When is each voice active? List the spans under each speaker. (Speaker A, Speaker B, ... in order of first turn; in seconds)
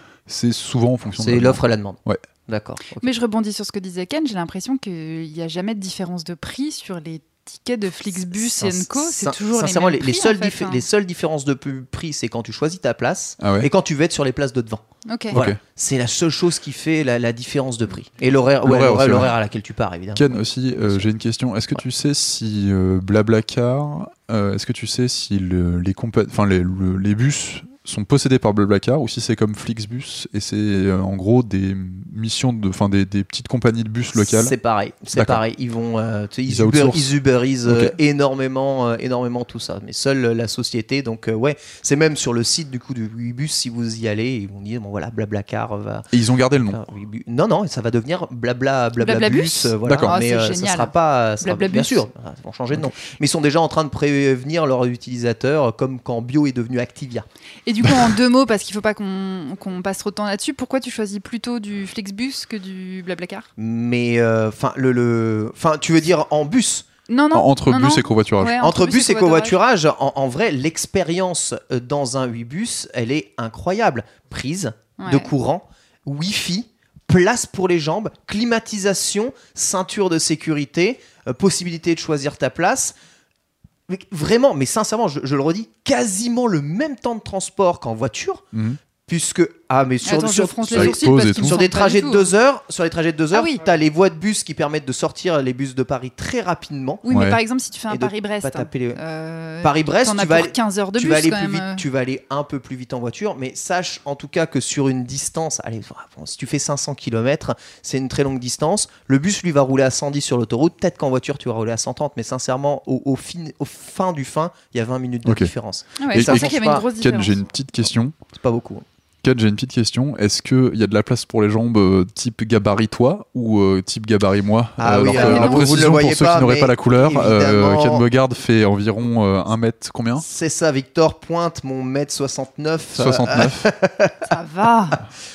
Speaker A: 0.3-2.2, 13.4-13.7, 15.3-15.6, 18.6-19.3, 20.1-34.5, 35.1-35.4, 36.5-37.9, 46.1-46.8, 49.8-50.2, 57.8-58.1, 67.3-68.6, 88.5-88.8, 90.7-91.6, 97.1-97.4, 115.2-115.5, 116.1-118.2, 119.2-130.2, 132.9-133.7
Speaker B: 1.2-3.0, 8.4-21.0, 34.1-46.1, 46.7-57.2, 63.6-66.9, 68.6-83.0, 83.9-88.5, 89.1-97.0, 97.9-99.0, 99.6-116.8, 118.3-118.8, 124.8-128.0, 130.2-134.3
Speaker C: 3.0-10.8, 15.1-15.3, 49.0-52.0, 57.6-63.5, 67.1-69.5, 75.0-75.3, 90.0-92.3, 93.3-93.6, 97.0-101.8, 116.0-117.4, 125.1-125.6, 134.2-135.0